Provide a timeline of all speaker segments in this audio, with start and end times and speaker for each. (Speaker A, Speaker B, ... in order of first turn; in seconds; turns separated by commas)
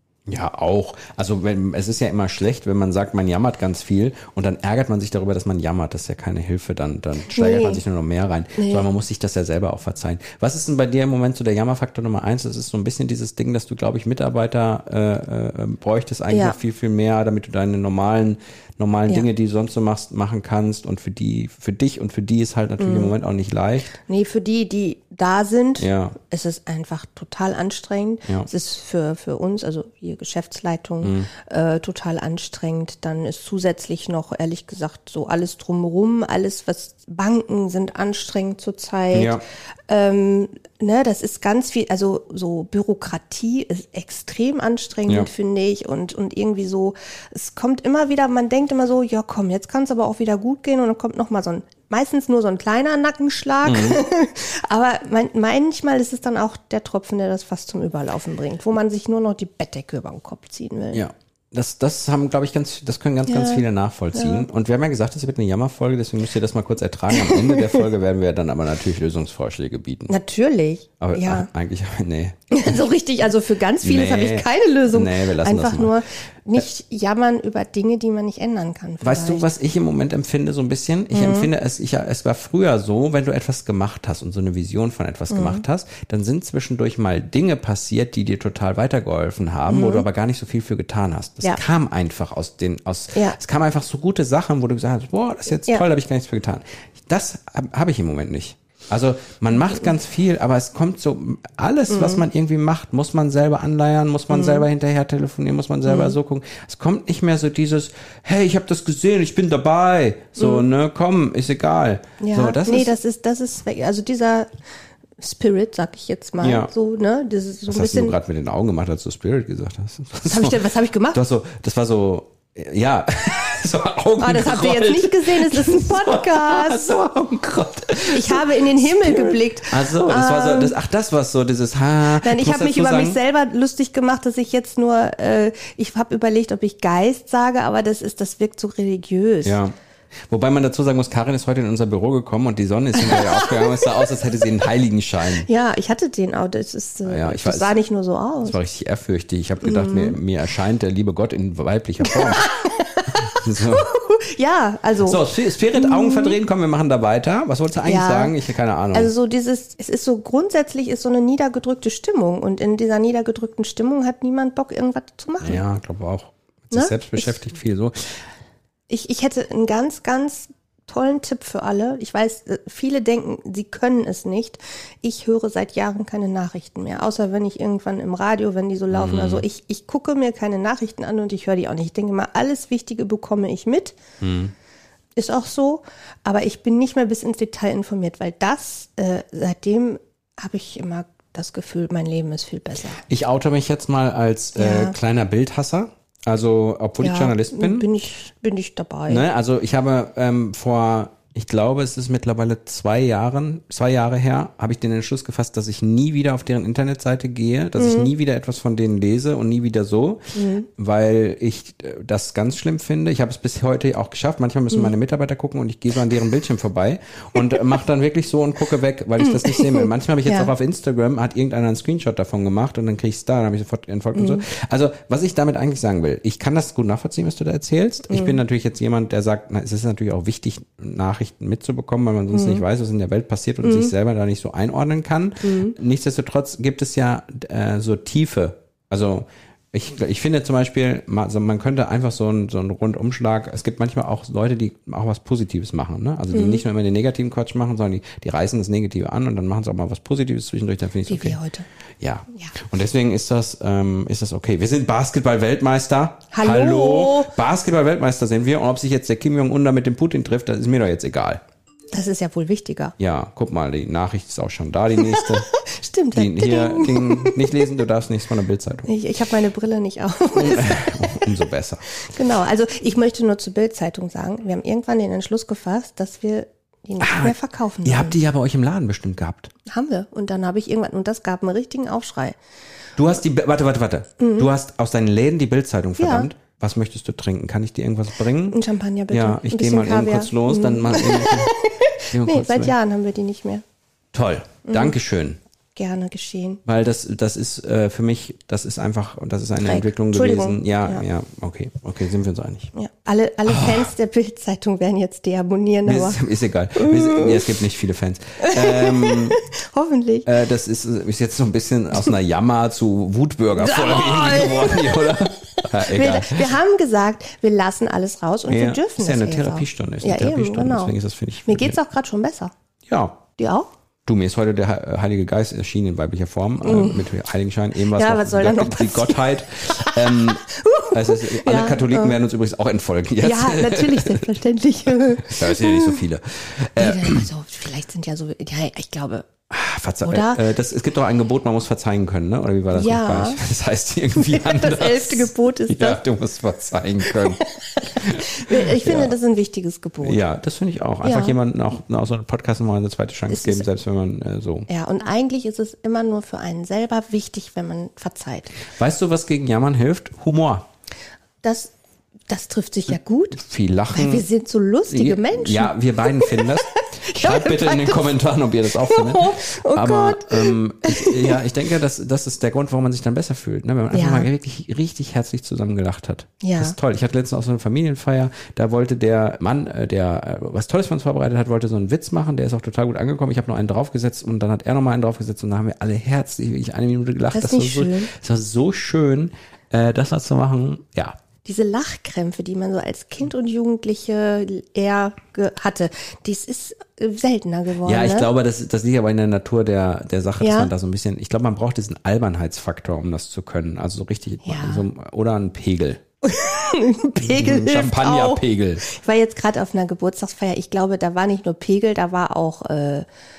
Speaker A: 0.3-24.0, Speaker B: 7.3-7.8, Speaker B: 8.6-8.9, Speaker B: 16.3-16.6, Speaker B: 22.8-23.1, Speaker B: 24.0-61.1, Speaker A: 25.8-26.2, Speaker A: 31.0-31.3, Speaker A: 39.1-39.4, Speaker A: 53.6-54.0, Speaker A: 60.9-70.1, Speaker B: 63.3-64.5, Speaker B: 67.1-67.9, Speaker B: 70.1-71.5, Speaker A: 71.0-72.7, Speaker B: 72.5-79.5, Speaker A: 73.8-76.0, Speaker A: 79.0-112.9, Speaker B: 81.1-81.5, Speaker B: 85.3-85.6, Speaker B: 89.7-90.1, Speaker B: 93.1-93.4, Speaker B: 101.9-102.2, Speaker B: 104.3-104.7, Speaker B: 105.9-106.2, Speaker B: 110.4-110.6, Speaker B: 112.2-114.5, Speaker B: 115.2-118.2, Speaker A: 116.4-116.7, Speaker A: 117.7-120.6, Speaker B: 120.2-121.2, Speaker A: 121.1-133.2, Speaker B: 124.2-127.0, Speaker B: 128.1-130.8, Speaker B: 132.2-139.6, Speaker A: 139.4-139.7, Speaker A: 140.3-145.5, Speaker B: 142.9-143.8, Speaker B: 145.3-148.6, Speaker A: 147.1-147.8, Speaker A: 148.4-152.5, Speaker B: 149.6-150.2, Speaker B: 152.0-156.4, Speaker A: 153.3-153.9, Speaker A: 155.0-159.1, Speaker B: 157.8-158.4, Speaker B: 158.9-165.6, Speaker A: 165.4-167.9, Speaker B: 166.7-167.4, Speaker B: 168.9-184.0, Speaker A: 178.9-179.4, Speaker A: 184.2-184.5, Speaker B: 185.2-193.0, Speaker A: 193.1-197.9, Speaker B: 194.6-194.9, Speaker B: 197.0-199.2, Speaker A: 199.1-251.4, Speaker B: 207.8-208.1, Speaker B: 210.3-210.7, Speaker B: 219.2-220.5, Speaker B: 224.1-224.4, Speaker B: 228.1-228.4, Speaker B: 232.3-232.6, Speaker B: 233.6-233.9, Speaker B: 235.4-235.8, Speaker B: 246.3-246.6, Speaker B: 251.1-251.7, Speaker A: 252.0-261.4, Speaker B: 256.3-257.3, Speaker B: 261.9-262.9, Speaker A: 263.0-265.5, Speaker B: 265.0-267.5, Speaker A: 266.1-268.9, Speaker B: 268.9-271.3, Speaker A: 270.3-271.8, Speaker B: 272.1-278.2, Speaker A: 277.0-279.5, Speaker B: 279.6-282.4, Speaker A: 283.0-291.6, Speaker B: 284.2-284.5, Speaker B: 286.0-286.3, Speaker B: 288.5-293.6, Speaker A: 292.1-292.8, Speaker A: 294.1-295.4, Speaker B: 294.6-295.0, Speaker B: 295.8-296.6, Speaker A: 296.6-302.7, Speaker B: 299.6-301.0, Speaker B: 302.7-306.2, Speaker A: 303.5-303.9, Speaker A: 305.9-309.4, Speaker B: 306.8-307.6, Speaker B: 308.4-310.3, Speaker A: 310.2-316.6, Speaker B: 313.5-320.9, Speaker A: 318.5-321.8, Speaker B: 321.4-322.5, Speaker A: 322.9-323.2, Speaker B: 323.4-323.7, Speaker A: 324.1-334.2, Speaker B: 326.6-327.1, Speaker B: 327.8-332.2, Speaker B: 333.2-336.0, Speaker A: 335.3-337.3, Speaker B: 336.8-339.3, Speaker A: 339.5-347.4, Speaker B: 340.0-340.5, Speaker B: 342.7-343.4, Speaker B: 344.1-346.0, Speaker B: 347.1-350.2, Speaker A: 348.0-349.1, Speaker A: 350.0-354.7, Speaker B: 351.0-351.4, Speaker B: 353.3-353.7, Speaker B: 354.7-358.6, Speaker A: 358.7-360.6, Speaker B: 361.4-361.7, Speaker B: 362.3-371.4, Speaker A: 363.3-364.2, Speaker A: 364.9-391.2, Speaker B: 373.9-374.3, Speaker B: 376.4-376.8, Speaker B: 387.3-388.1, Speaker B: 391.4-398.3, Speaker A: 397.8-406.0, Speaker B: 400.4-400.7, Speaker B: 404.4-404.9, Speaker B: 406.2-413.1, Speaker A: 407.2-408.8